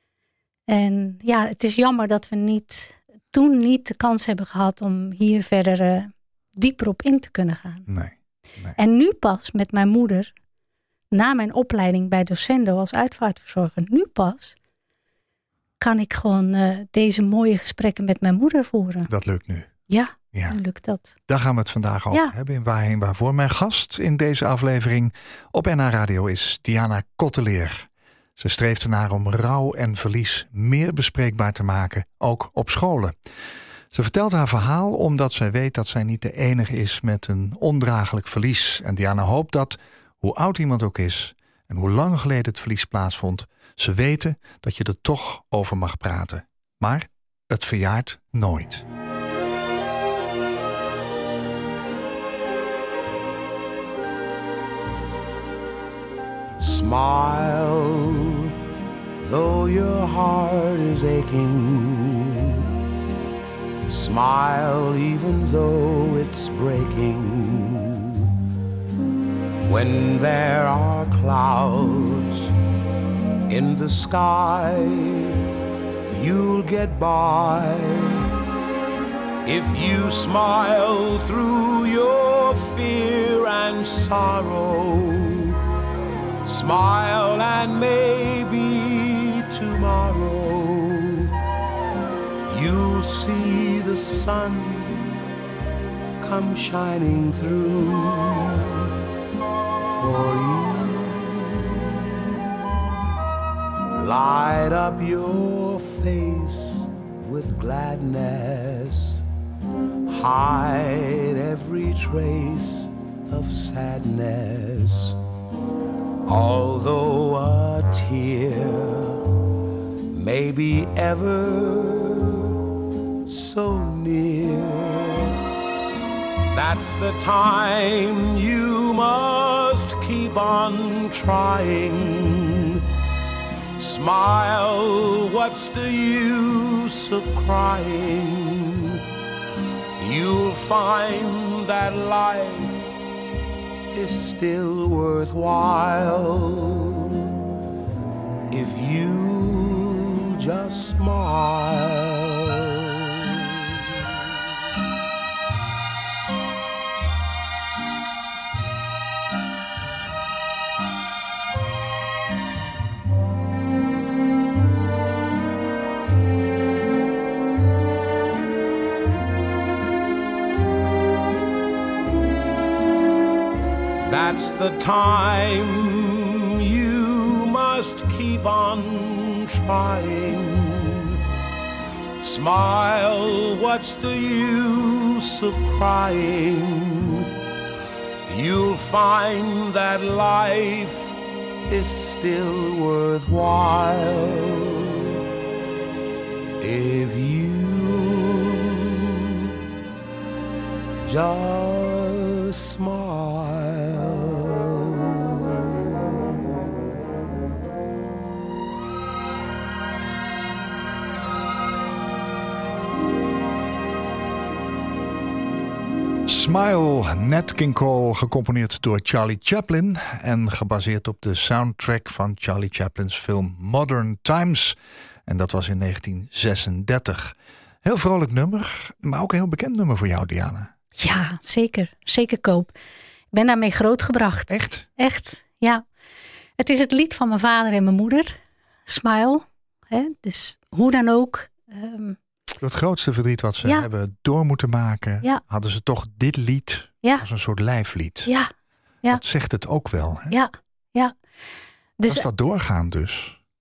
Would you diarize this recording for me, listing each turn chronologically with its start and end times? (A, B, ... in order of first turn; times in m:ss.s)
0:00.7-0:07.9 A
0:07.9-0:08.8 B
0:08.8-0:10.3 A
0:11.1-0:14.6 A
0:15.8-0:19.1 A
0:19.1-0:19.7 B
0:19.9-0:21.2 A
0:20.3-0:20.6 B
0:21.3-0:33.2 B
0:33.9-0:48.8 B
0:56.6-0:58.5 C
0:59.2-1:02.6 C
1:03.9-1:08.3 C
1:09.7-1:12.5 C
1:13.5-1:15.4 C
1:16.1-1:18.3 C
1:19.4-1:25.6 C
1:26.4-1:31.3 C
1:32.5-1:35.0 C
1:36.2-1:38.9 C
1:39.8-1:41.8 C
1:44.0-1:49.2 C
1:50.1-1:55.2 C
1:56.3-1:59.2 C
2:00.1-2:02.5 C
2:03.3-2:05.4 C
2:06.5-2:12.8 C
2:13.8-2:19.0 C
2:20.0-2:22.9 C
2:23.9-2:27.4 C
2:28.5-2:33.6 C
2:54.1-3:01.2 C
3:02.2-3:07.3 C
3:08.3-3:11.2 C
3:11.7-3:15.2 C
3:16.6-3:19.2 C
3:21.0-3:25.9 C
3:36.3-3:50.7 B
3:51.0-3:52.7 A
3:53.3-3:55.8 A
3:54.5-3:54.9 B
3:56.6-4:02.2 A
4:02.6-4:08.3 B
4:09.1-4:10.3 B
4:10.3-4:11.1 A
4:12.0-4:12.3 A
4:12.1-4:13.4 B